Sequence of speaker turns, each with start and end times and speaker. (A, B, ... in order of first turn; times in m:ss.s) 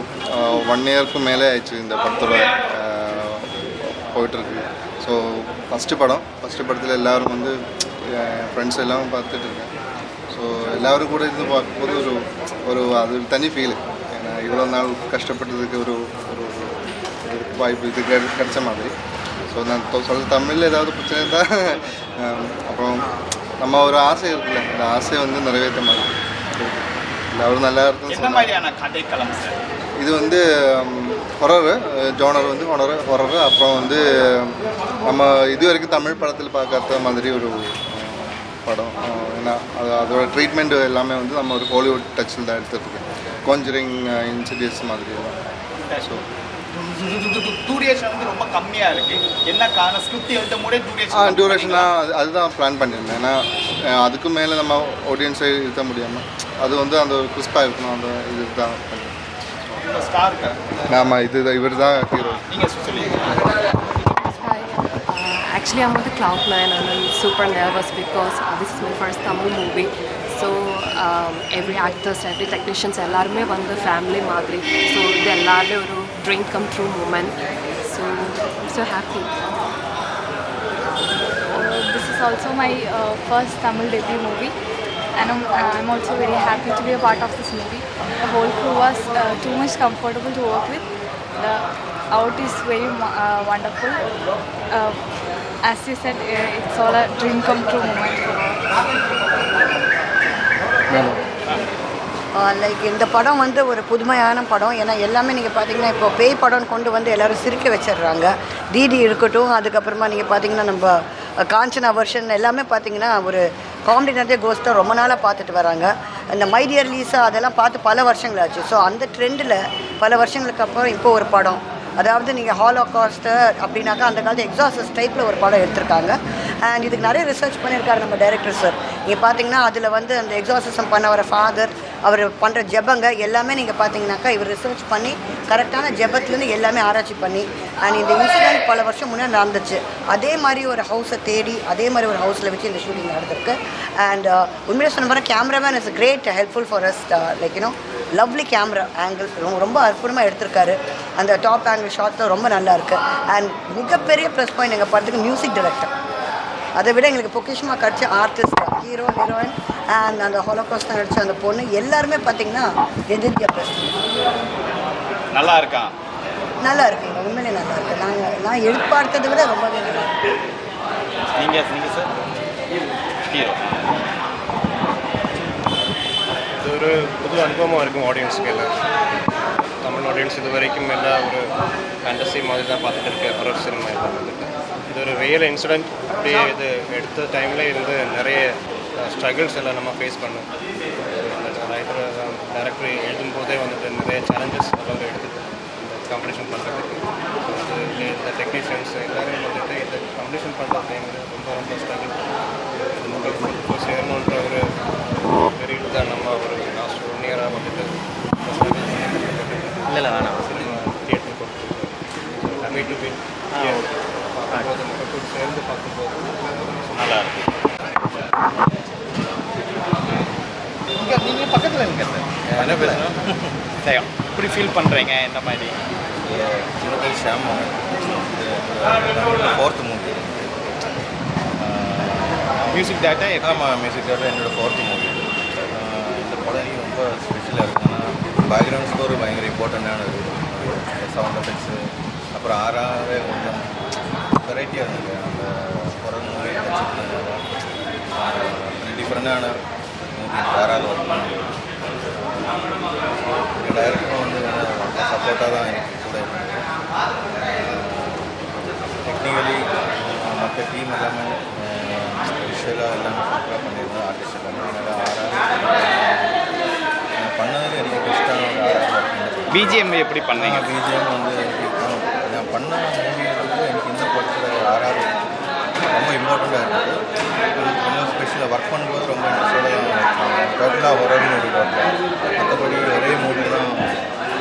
0:00.3-0:03.4 A
0:04.1-0:07.5 A
0:08.1-0:09.7 A
0:10.3-0:18.9 A
0:19.5-0:23.0 A
0:23.6-0:28.5 A
0:28.1-0:29.6 B
0:30.0-0:34.6 A
0:35.1-0:45.4 A
0:46.7-0:51.9 B
0:51.1-0:59.1 A
0:59.8-1:00.7 B
1:00.9-1:02.4 A
1:02.5-1:04.2 B
1:04.4-1:05.0 C
1:05.1-1:19.3 D
1:21.5-1:24.5 C
1:25.2-1:34.0 C
1:34.7-1:35.0 C
1:35.6-1:38.6 C
1:42.4-1:51.0 E
1:51.5-2:35.9 E
2:36.8-2:44.0 E
2:45.3-2:45.9 B
2:46.6-2:50.1 E
2:51.3-2:52.1 B
2:53.2-2:53.6 B
2:56.6-2:58.7 F
2:59.8-3:01.4 F
3:02.0-3:10.4 F
3:11.1-3:22.2 F
3:23.0-3:24.6 F
3:25.2-3:37.3 F
3:29.9-3:30.6 G
3:33.5-3:33.8 G
3:36.9-3:37.4 B
3:40.9-3:43.1 B
3:42.4-3:43.6 G
3:43.8-3:45.7 B
3:46.2-3:50.5 G
3:51.6-4:03.7 G
3:52.6-3:53.6 B
4:04.4-4:07.4 G
4:08.1-4:09.5 G
4:10.1-4:12.8 G
4:13.6-4:16.6 G
4:17.3-4:18.3 G
4:19.0-4:26.4 G
4:27.2-4:35.2 G
4:29.5-4:30.7 B
4:35.9-4:37.0 G
4:37.6-4:43.9 G